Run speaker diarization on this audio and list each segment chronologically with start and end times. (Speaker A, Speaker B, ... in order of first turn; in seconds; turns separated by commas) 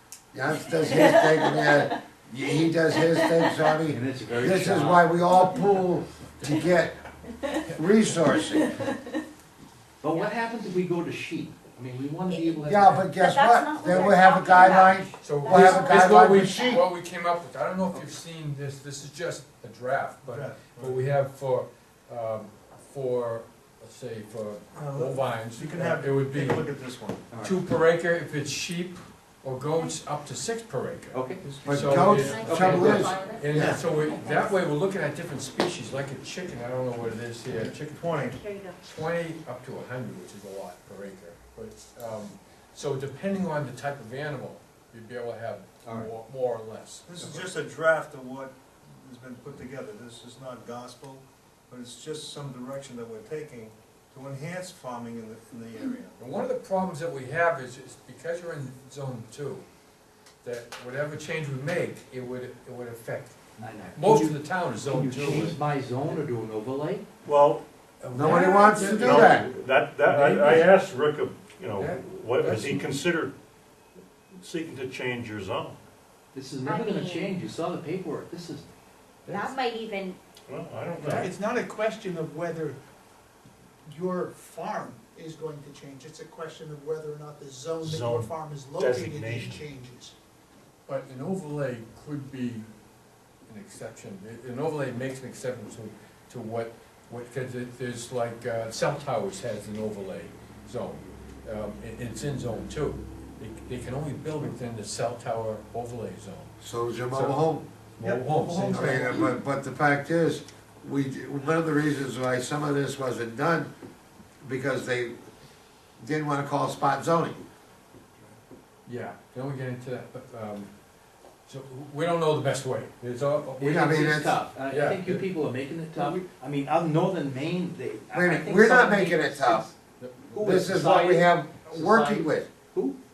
Speaker A: 0.3-7.0, Speaker B: 0.7-2.0, Speaker B: 2.5-3.7, Speaker C: 3.9-5.1, Speaker B: 7.4-7.7, Speaker A: 7.7-8.7, Speaker D: 7.7-8.2, Speaker B: 8.3-9.2, Speaker C: 10.0-13.1, Speaker B: 12.3-12.6, Speaker A: 12.7-16.9, Speaker B: 13.2-16.8, Speaker D: 15.1-26.7, Speaker E: 17.8-18.1, Speaker E: 20.2-21.1, Speaker E: 24.7-27.2, Speaker C: 27.3-27.6, Speaker D: 27.4-47.4, Speaker C: 31.1-33.1, Speaker E: 31.4-32.1, Speaker A: 31.6-33.8, Speaker B: 32.1-34.6, Speaker E: 37.5-38.4, Speaker B: 38.4-38.8, Speaker C: 45.8-46.1, Speaker E: 47.1-56.2, Speaker D: 56.2-59.7, Speaker D: 60.4-65.6, Speaker C: 63.6-67.0, Speaker F: 67.2-67.6, Speaker D: 68.0-70.8, Speaker A: 68.1-69.5, Speaker F: 68.3-73.3, Speaker D: 71.8-73.0, Speaker F: 74.4-75.8, Speaker C: 76.3-78.7, Speaker B: 76.6-77.4, Speaker D: 79.2-79.6, Speaker B: 79.2-80.2, Speaker F: 80.5-81.3, Speaker D: 80.9-81.3, Speaker G: 81.0-82.8, Speaker G: 83.8-90.1, Speaker F: 87.8-89.6, Speaker D: 90.9-92.7, Speaker D: 93.5-106.6, Speaker A: 106.6-107.7, Speaker D: 107.1-107.4, Speaker D: 108.0-109.2, Speaker G: 108.0-109.3, Speaker A: 108.7-113.7, Speaker A: 114.4-115.2, Speaker A: 116.0-117.4, Speaker D: 118.9-120.7, Speaker D: 121.5-123.8, Speaker C: 123.6-129.7, Speaker A: 123.6-124.4, Speaker D: 124.7-125.3, Speaker D: 125.9-126.2, Speaker A: 128.1-129.7, Speaker D: 130.0-130.5, Speaker C: 130.3-133.0, Speaker A: 130.4-132.5